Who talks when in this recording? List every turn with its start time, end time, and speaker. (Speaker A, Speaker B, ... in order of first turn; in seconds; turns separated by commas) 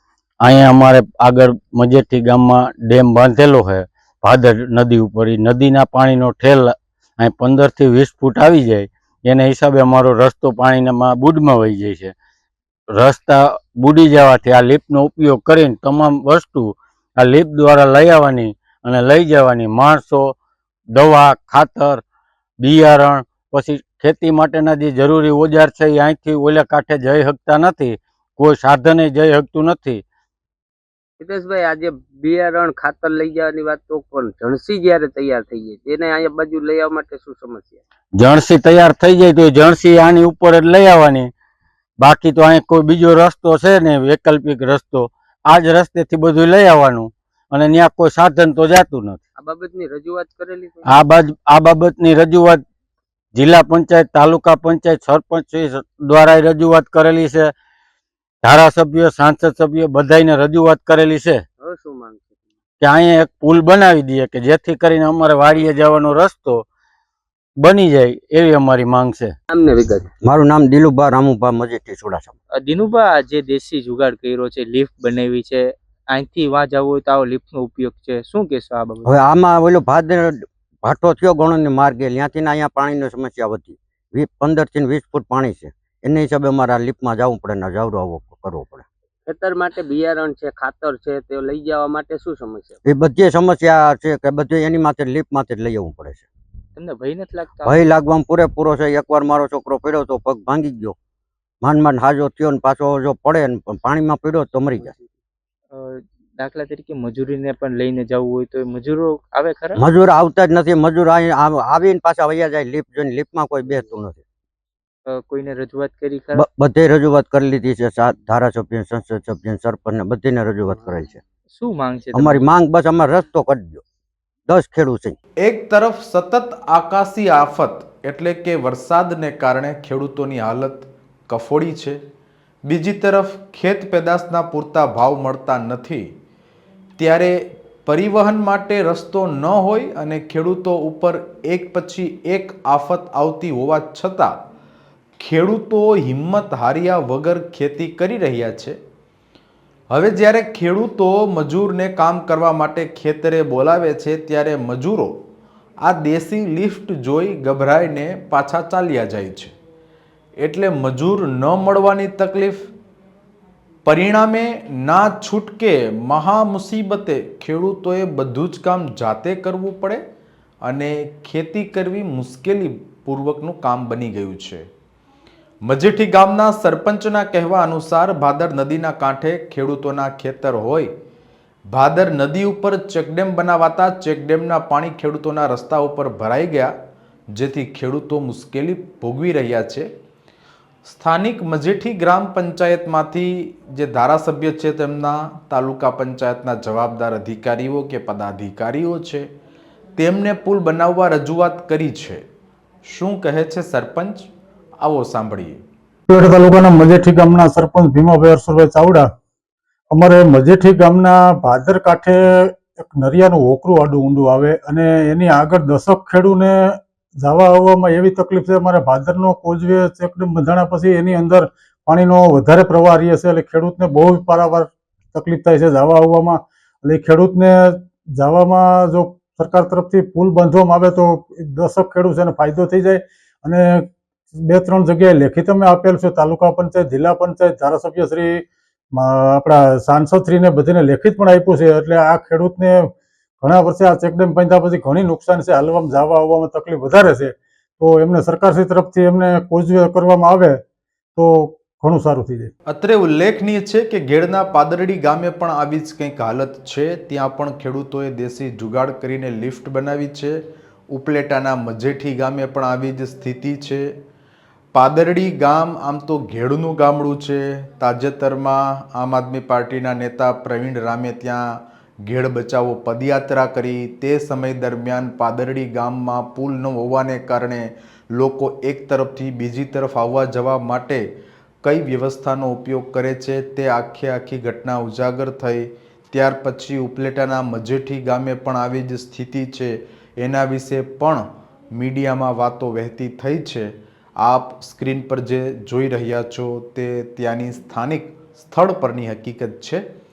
Speaker A: 0.4-12.1, Speaker A: 12.9-20.3, Speaker A: 20.9-22.0, Speaker A: 22.6-30.0, Speaker B: 31.2-37.8, Speaker A: 38.2-41.3, Speaker A: 42.0-49.2, Speaker B: 49.4-51.0, Speaker A: 50.9-52.6, Speaker A: 53.3-57.5, Speaker A: 58.4-61.4, Speaker B: 61.6-62.4, Speaker A: 62.8-66.6, Speaker A: 67.6-69.3, Speaker B: 69.5-70.1, Speaker C: 70.2-72.3, Speaker D: 72.5-79.1, Speaker C: 79.0-88.9, Speaker B: 89.3-92.8, Speaker C: 92.8-96.3, Speaker D: 96.8-97.9, Speaker C: 97.6-101.0, Speaker C: 101.6-104.9, Speaker D: 105.7-109.8, Speaker C: 109.8-114.2, Speaker D: 115.1-116.4, Speaker C: 116.3-121.2, Speaker D: 121.5-122.5, Speaker C: 122.1-123.8, Speaker C: 124.5-125.2, Speaker E: 125.4-132.0, Speaker E: 132.7-136.0, Speaker E: 137.0-144.3, Speaker E: 145.2-148.7, Speaker E: 149.9-155.1, Speaker E: 155.8-159.5, Speaker E: 160.4-162.6, Speaker E: 163.8-170.0, Speaker E: 170.6-174.6, Speaker E: 175.7-180.9, Speaker E: 181.7-186.7, Speaker E: 187.3-189.9, Speaker E: 190.8-199.2, Speaker E: 200.0-202.2, Speaker E: 202.8-204.2, Speaker E: 204.8-205.6, Speaker F: 206.1-209.1, Speaker F: 209.9-250.6, Speaker F: 251.2-252.5, Speaker E: 252.7-260.4, Speaker E: 260.9-263.9, Speaker E: 264.7-271.5, Speaker E: 272.1-281.0, Speaker E: 281.6-293.7, Speaker E: 294.2-299.8